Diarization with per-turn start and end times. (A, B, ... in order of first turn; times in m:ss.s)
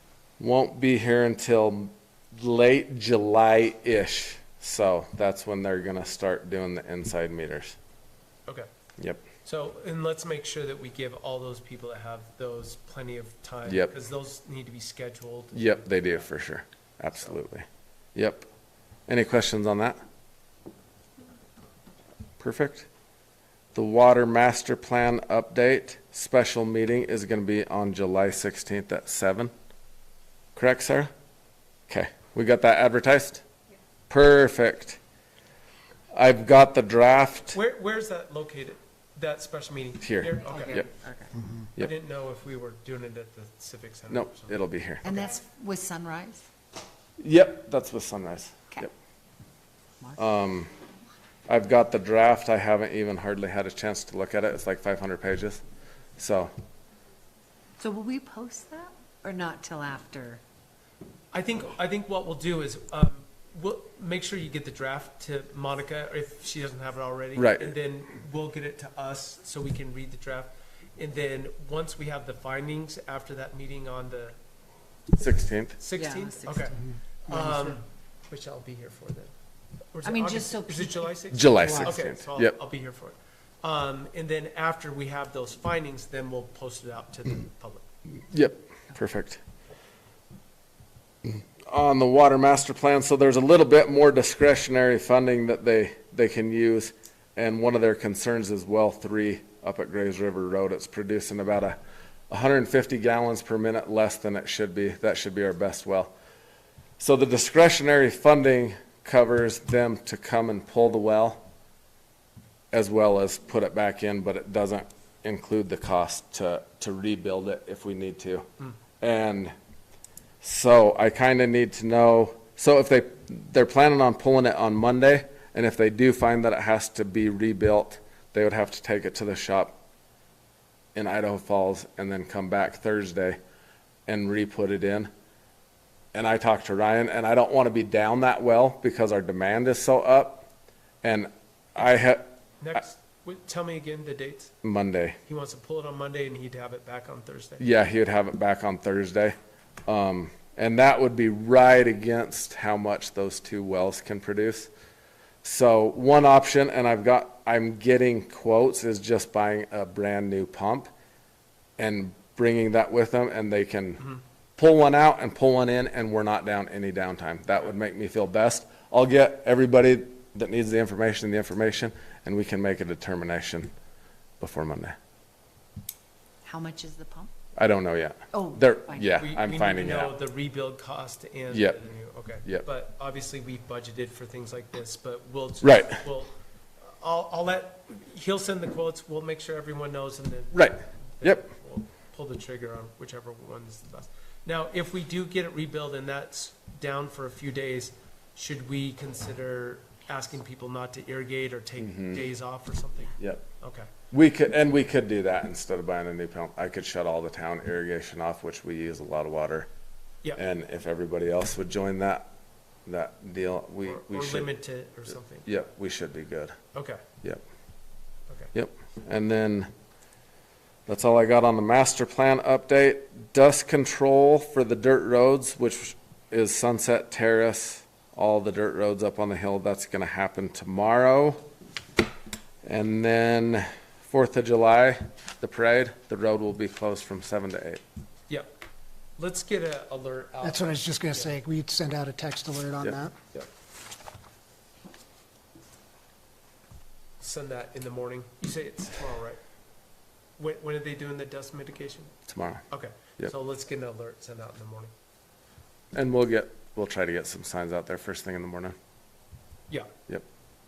0:00.4-0:07.8 A
0:09.4-0:16.1 B
0:13.6-0:13.9 A
0:15.5-0:18.5 A
0:19.1-0:20.0 A
0:22.4-0:22.9 A
0:23.7-0:29.5 A
0:30.5-0:31.1 A
0:31.9-0:33.4 A
0:34.1-0:35.0 A
0:36.1-0:37.6 A
0:37.5-0:40.9 B
0:40.0-0:40.9 A
0:40.4-0:41.4 C
0:41.7-0:44.6 B
0:44.1-0:45.2 A
0:45.0-0:46.4 C
0:47.2-0:48.9 A
0:50.2-0:50.7 A
0:51.5-0:55.6 A
0:56.2-0:56.5 A
0:57.8-1:00.4 C
1:01.3-1:14.4 B
1:07.4-1:07.7 A
1:15.2-1:15.8 A
1:15.8-1:19.3 B
1:15.9-1:16.8 C
1:19.9-1:27.8 B
1:20.0-1:21.9 C
1:21.3-1:22.5 A
1:28.3-1:29.4 A
1:31.7-1:41.8 A
1:42.3-1:46.1 A
1:47.0-1:51.4 A
1:52.7-1:58.5 A
1:59.0-1:59.5 A
2:00.4-2:09.8 A
2:10.9-2:13.4 A
2:14.1-2:15.1 A
2:16.1-2:20.5 A
2:21.0-2:22.2 A
2:22.6-2:24.5 B
2:24.6-2:25.2 A
2:25.3-2:27.6 B
2:27.6-2:29.3 A
2:29.9-2:34.7 A
2:35.4-2:40.9 A
2:41.8-2:53.7 A
2:54.4-2:55.0 A
2:56.4-2:57.3 C
2:57.6-3:00.1 A
2:58.3-2:59.1 C
2:59.2-3:06.3 B
3:01.5-3:01.8 A
3:05.6-3:06.0 A
3:06.8-3:23.9 B
3:10.5-3:11.5 A
3:21.8-3:22.2 A
3:23.2-3:23.4 A
3:24.1-3:29.7 A
3:30.4-3:32.3 A
3:32.8-3:34.5 A
3:33.8-3:35.5 B
3:35.4-3:36.6 A
3:36.7-3:37.0 B
3:38.5-3:39.7 A
3:40.9-3:51.4 A
3:52.6-3:57.8 A
3:59.2-4:01.3 B
4:00.4-4:03.2 D
4:07.2-4:09.4 B
4:10.4-4:12.1 B
4:12.3-4:12.6 A
4:12.7-4:14.9 B
4:15.9-4:18.7 A